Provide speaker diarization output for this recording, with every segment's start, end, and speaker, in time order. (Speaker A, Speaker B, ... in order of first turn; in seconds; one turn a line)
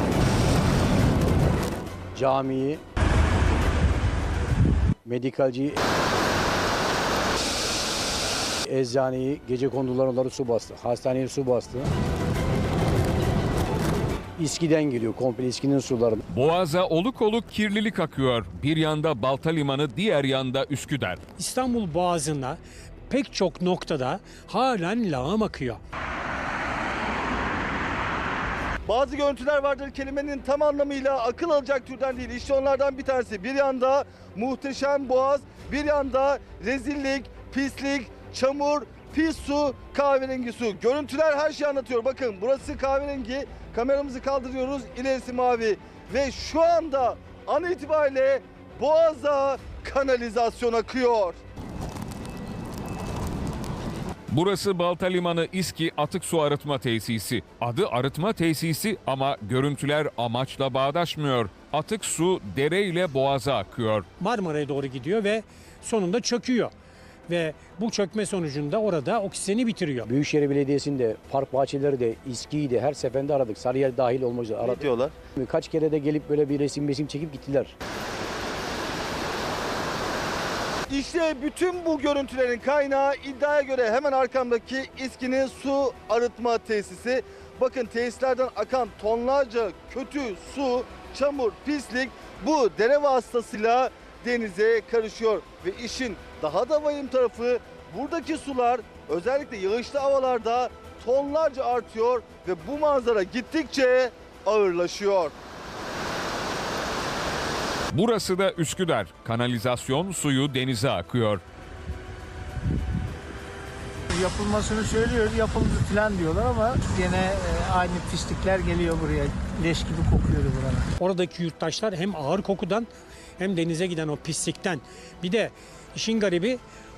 Speaker A: 2.1-2.8
Speaker A: 5.0-5.8
Speaker A: 8.7-11.9
Speaker A: 14.4-16.2
Speaker B: 16.3-21.2
Speaker C: 21.4-25.8
Speaker D: 28.9-51.4
Speaker B: 54.3-64.1
Speaker C: 64.2-66.7
Speaker C: 67.3-70.1
Speaker A: 70.1-77.7
Speaker D: 74.6-75.1
Speaker D: 80.9-105.3
Speaker B: 107.9-111.4
Speaker E: 114.1-120.9
Speaker C: 121.0-126.6